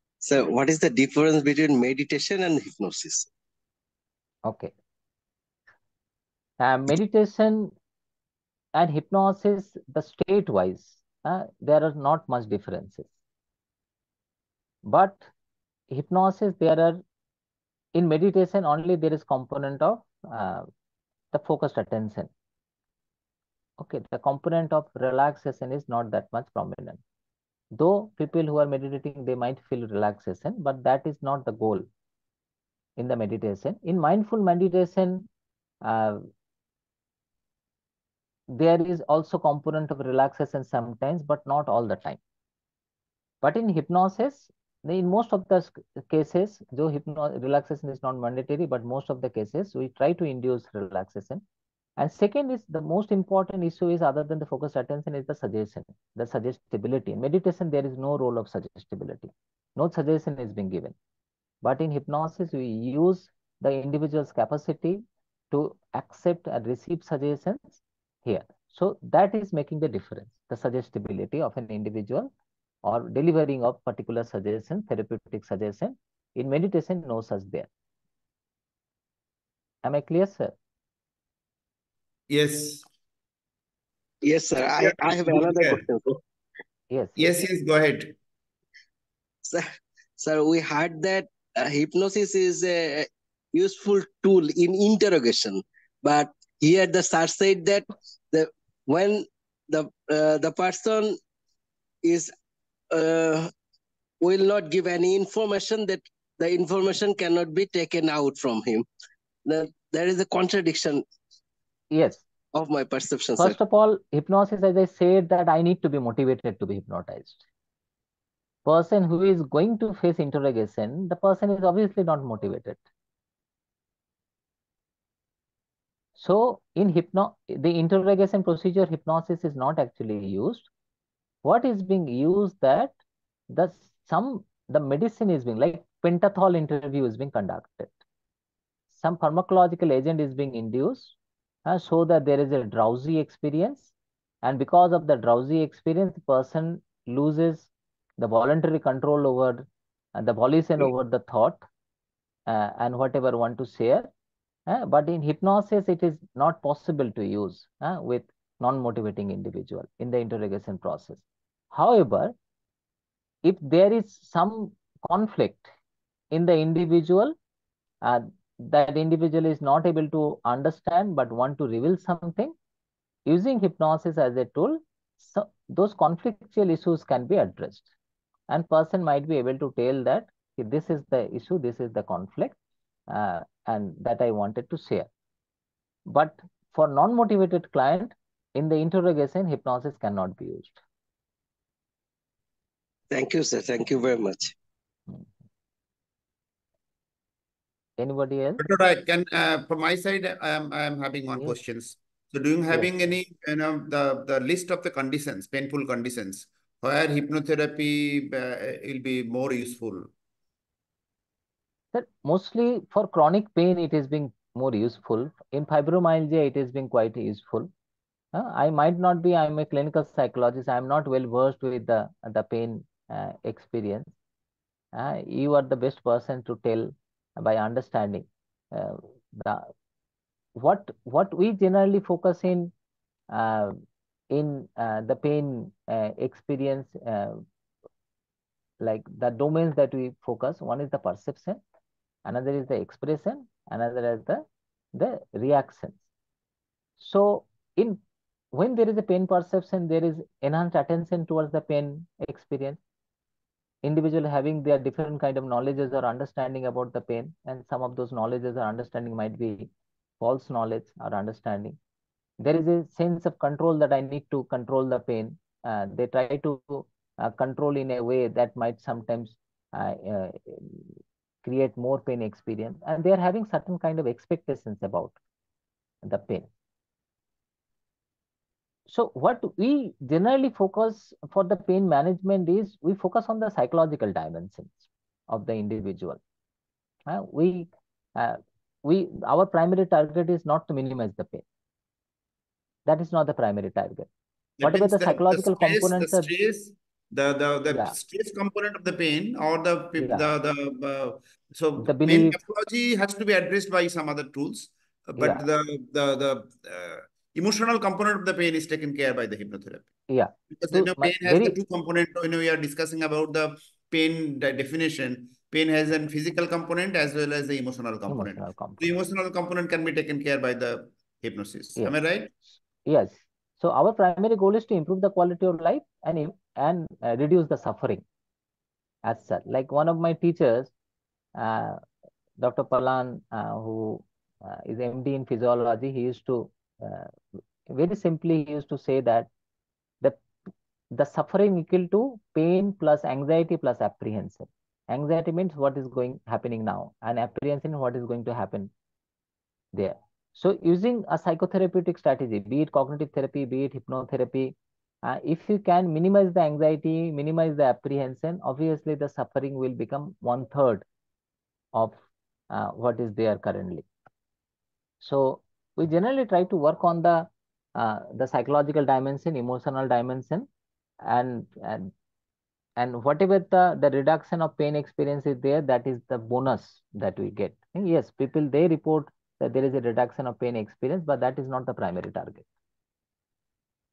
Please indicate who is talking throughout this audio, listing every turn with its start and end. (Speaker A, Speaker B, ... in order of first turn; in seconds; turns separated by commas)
Speaker A: 0.2-3.3, Speaker B: 4.5-4.7, Speaker B: 6.6-7.7, Speaker B: 8.8-13.1, Speaker B: 14.8-15.3, Speaker B: 15.9-17.0, Speaker B: 17.9-20.7, Speaker B: 21.3-22.3, Speaker B: 23.8-27.0, Speaker B: 27.7-31.9, Speaker B: 33.0-35.3, Speaker B: 35.8-36.3, Speaker B: 38.5-42.2, Speaker B: 43.4-51.4, Speaker B: 52.0-61.0, Speaker B: 61.6-72.3, Speaker B: 72.8-77.7, Speaker B: 79.8-80.5, Speaker C: 82.3-82.9, Speaker A: 84.2-86.2, Speaker C: 84.8-85.8, Speaker B: 86.9-87.2, Speaker C: 87.2-88.1, Speaker A: 89.5-101.2, Speaker A: 102.0-102.3, Speaker A: 102.9-103.5, Speaker A: 104.2-108.9, Speaker A: 109.5-111.0, Speaker B: 111.9-112.2, Speaker A: 112.5-113.6, Speaker B: 113.4-117.4, Speaker B: 118.7-122.8, Speaker B: 126.2-130.7, Speaker B: 131.4-132.9, Speaker B: 133.5-137.9, Speaker B: 138.9-151.6, Speaker B: 152.5-154.1, Speaker B: 154.7-162.3, Speaker B: 163.4-165.7, Speaker B: 166.3-167.3, Speaker B: 168.0-172.5, Speaker B: 173.3-177.9, Speaker B: 178.5-182.6, Speaker B: 183.1-185.1, Speaker B: 186.1-190.8, Speaker A: 193.1-194.5, Speaker B: 198.0-198.6, Speaker C: 198.6-210.1, Speaker B: 202.7-203.1, Speaker B: 211.9-217.7, Speaker B: 218.3-224.1, Speaker B: 224.9-229.7, Speaker B: 230.6-232.7, Speaker B: 233.3-233.8, Speaker B: 234.3-237.4, Speaker B: 238.8-241.6, Speaker B: 242.2-246.0, Speaker B: 247.0-248.0, Speaker B: 248.5-252.8, Speaker B: 253.8-261.8, Speaker B: 262.4-275.2, Speaker B: 276.1-276.5, Speaker B: 278.9-286.2, Speaker B: 287.1-291.4, Speaker B: 292.9-294.1, Speaker C: 294.6-309.9, Speaker B: 294.6-296.3, Speaker B: 297.7-298.0, Speaker B: 300.0-300.3, Speaker B: 301.8-302.4, Speaker B: 305.2-305.4, Speaker B: 310.1-311.6, Speaker C: 310.5-322.3, Speaker B: 318.1-318.9, Speaker B: 322.9-328.0, Speaker B: 329.1-330.7, Speaker B: 331.4-331.8, Speaker B: 332.4-339.3, Speaker B: 340.9-348.7, Speaker B: 349.7-360.9, Speaker B: 362.5-363.9, Speaker B: 365.0-370.5, Speaker B: 371.1-371.9, Speaker B: 372.8-382.5